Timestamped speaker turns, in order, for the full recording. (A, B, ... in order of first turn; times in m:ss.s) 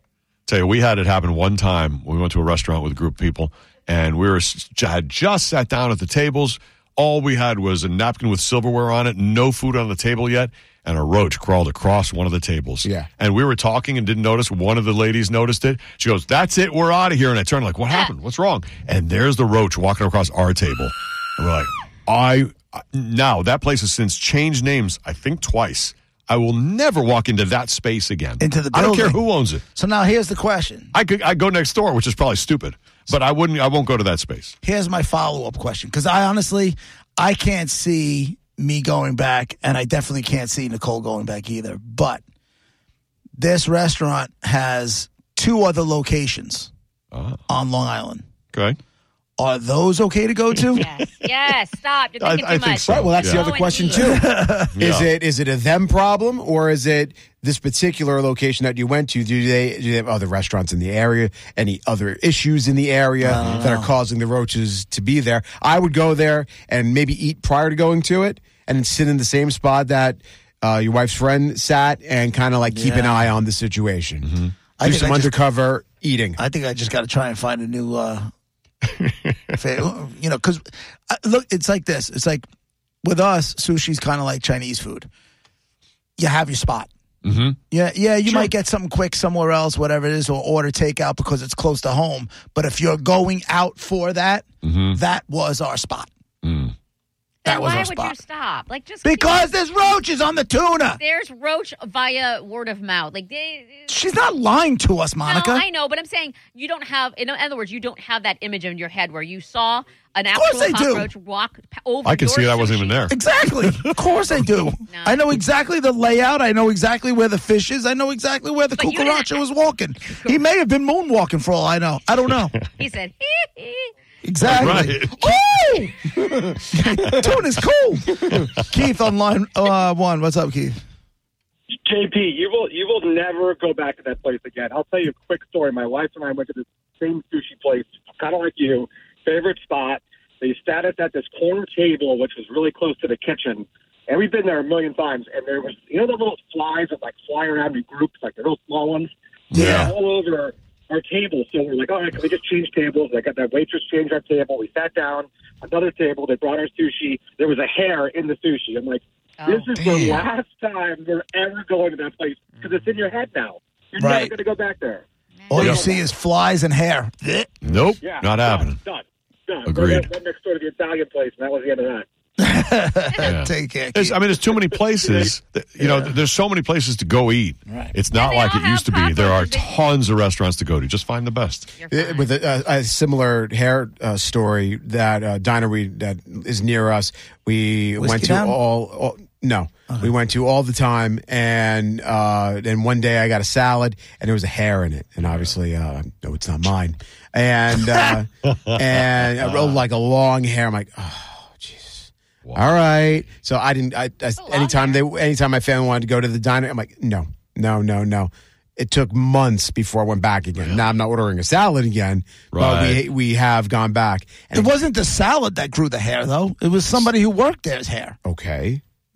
0:00.4-0:29.6 A
0:28.4-0:30.9 B
0:30.9-0:34.5 A
0:34.6-0:42.2 B
0:43.4-0:46.7 B
0:47.1-0:47.4 A
0:47.5-0:48.2 B
0:48.5-0:48.8 A
0:49.4-0:50.8 B
0:50.6-0:50.8 A
0:50.7-0:54.2 C
0:52.2-0:53.5 A
0:52.9-1:14.3 D
0:53.7-0:54.7 B
0:54.7-0:55.0 A
1:03.2-1:03.9 B
1:03.3-1:03.7 A
1:12.7-1:13.3 B
1:14.2-1:14.5 A
1:14.8-1:15.4 B
1:14.8-1:16.4 D
1:16.4-1:18.3 B
1:18.9-1:19.5 A
1:19.5-1:22.5 B
1:23.0-1:25.1 B
1:26.2-1:26.9 B
1:27.2-1:27.6 A
1:27.7-1:36.1 B
1:34.6-1:35.0 A
1:36.4-1:36.7 A
1:37.4-1:39.5 C
1:37.4-1:38.2 B
1:39.0-1:41.0 B
1:40.9-1:44.0 C
1:43.9-1:45.6 B
1:45.2-1:53.0 C
1:50.3-1:51.1 B
1:52.0-1:54.7 A
1:53.1-2:02.5 B
1:54.9-1:55.3 C
1:58.8-1:59.3 C
2:00.0-2:00.4 C
2:02.6-2:03.9 C
2:04.2-2:06.0 B
2:04.4-2:05.3 A
2:05.2-2:05.5 C
2:06.6-2:10.8 B
2:11.7-2:45.0 E
2:29.5-2:29.9 A
2:29.5-2:29.9 B
2:39.4-2:39.7 C
2:39.7-2:40.2 B
2:42.5-2:42.9 C
2:44.0-2:44.4 B
2:45.4-2:45.8 C
2:45.5-2:47.6 B
2:45.5-2:46.1 E
2:47.6-2:48.8 A
2:48.0-2:52.1 E
2:49.6-2:50.1 A
2:52.4-2:54.2 B
2:53.2-3:01.7 A
2:54.4-2:55.9 E
2:57.7-2:57.9 B
2:58.1-2:59.9 C
3:01.8-3:02.4 C
3:01.9-3:34.8 D
3:08.0-3:08.6 B
3:15.2-3:15.5 A
3:17.9-3:18.1 B
3:19.4-3:19.8 A
3:22.4-3:22.7 A
3:24.4-3:25.0 C
3:30.6-3:30.8 A
3:32.5-3:33.0 A
3:34.5-3:38.2 B
3:38.2-3:38.8 D